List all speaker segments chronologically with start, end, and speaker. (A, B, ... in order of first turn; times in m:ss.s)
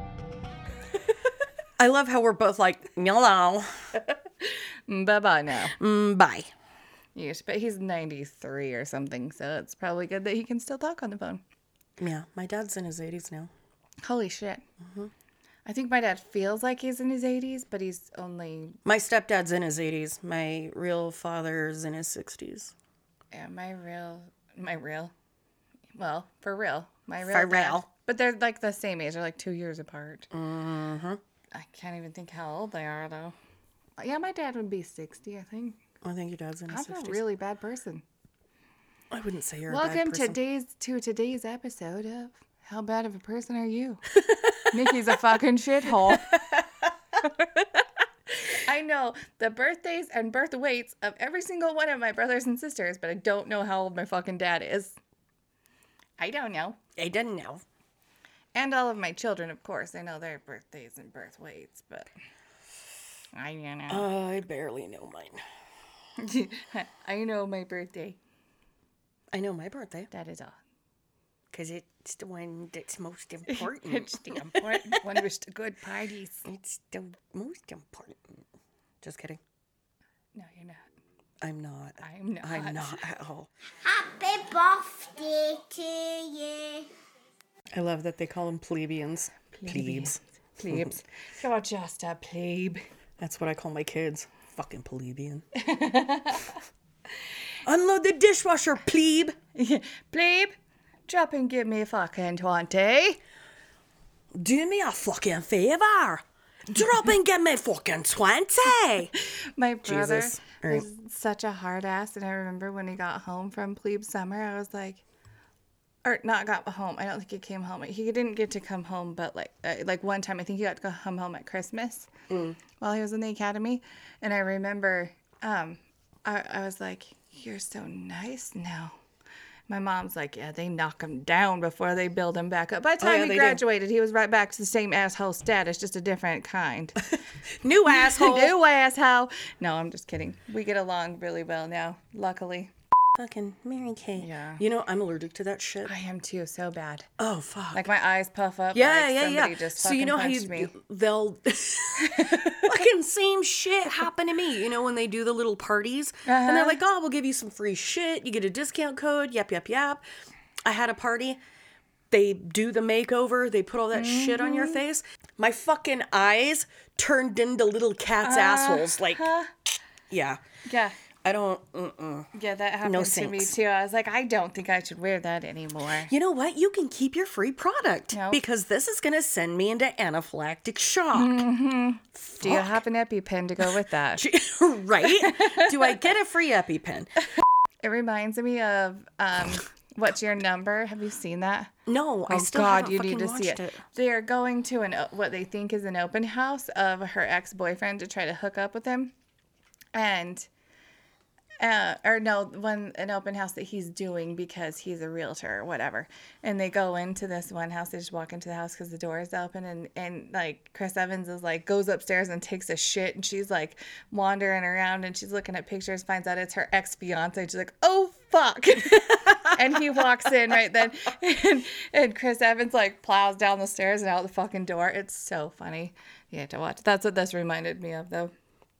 0:01.8-0:03.7 A
0:04.9-0:05.7 B
0:05.8-0:06.5 A
0:07.1-0:11.4 B
0:12.0-0:13.5 A
0:14.0-0:14.6 B
0:15.6-0:18.8 B
0:18.8-0:22.7 A
0:23.3-0:25.1 B
0:26.0-0:30.3 B
0:27.3-0:27.8 A
0:30.3-0:31.2 A
0:31.5-0:33.3 B
0:34.0-0:35.8 B
0:36.0-0:37.2 A
0:36.7-0:38.0 B
0:39.1-0:40.4 A
0:39.7-0:44.0 B
0:44.7-0:46.5 B
0:47.2-0:47.7 B
0:48.4-0:55.0 B
0:56.2-0:56.8 B
0:57.0-0:57.6 A
0:58.5-1:02.1 B
1:03.3-1:04.1 B
1:03.9-1:05.4 A
1:06.2-1:08.2 B
1:09.3-1:10.1 A
1:10.1-1:10.6 B
1:11.5-1:15.0 A
1:13.5-1:16.4 B
1:16.5-1:18.4 A
1:19.0-1:19.4 A
1:20.3-1:20.8 B
1:21.4-1:23.5 A
1:22.0-1:23.0 B
1:23.8-1:26.8 C
1:27.7-1:30.2 A
1:29.6-1:32.8 B
1:33.2-1:35.4 A
1:35.6-1:36.6 B
1:37.6-1:39.4 A
1:39.6-1:40.5 B
1:41.1-1:43.2 B
1:44.3-1:49.1 A
1:49.5-1:55.0 B
1:49.8-1:50.8 A
1:56.0-2:02.1 B
2:02.3-2:02.6 A
2:02.8-2:08.9 B
2:09.7-2:17.0 B
2:13.0-2:13.6 A
2:17.6-2:18.5 A
2:17.8-2:22.7 B
2:23.2-2:25.9 A
2:24.2-2:24.6 B
2:25.8-2:27.1 B
2:27.2-2:27.8 A
2:27.7-2:30.7 B
2:28.7-2:40.0 A
2:32.0-2:32.8 B
2:36.2-2:36.8 B
2:40.6-2:41.4 A
2:42.1-2:49.2 A
2:43.9-2:44.8 B
2:48.2-2:49.5 B
2:50.1-2:50.4 A
2:50.6-2:51.0 B
2:51.2-2:52.3 A
2:52.3-2:56.1 B
2:52.8-2:53.5 A
2:56.1-3:01.4 A
2:58.1-2:58.4 B
3:01.1-3:04.2 B
3:02.3-3:02.8 A
3:04.2-3:07.1 A
3:05.1-3:05.8 B
3:07.8-3:11.7 B
3:11.9-3:13.8 A
3:12.3-3:19.1 B
3:19.9-3:20.5 B
3:21.6-3:48.3 B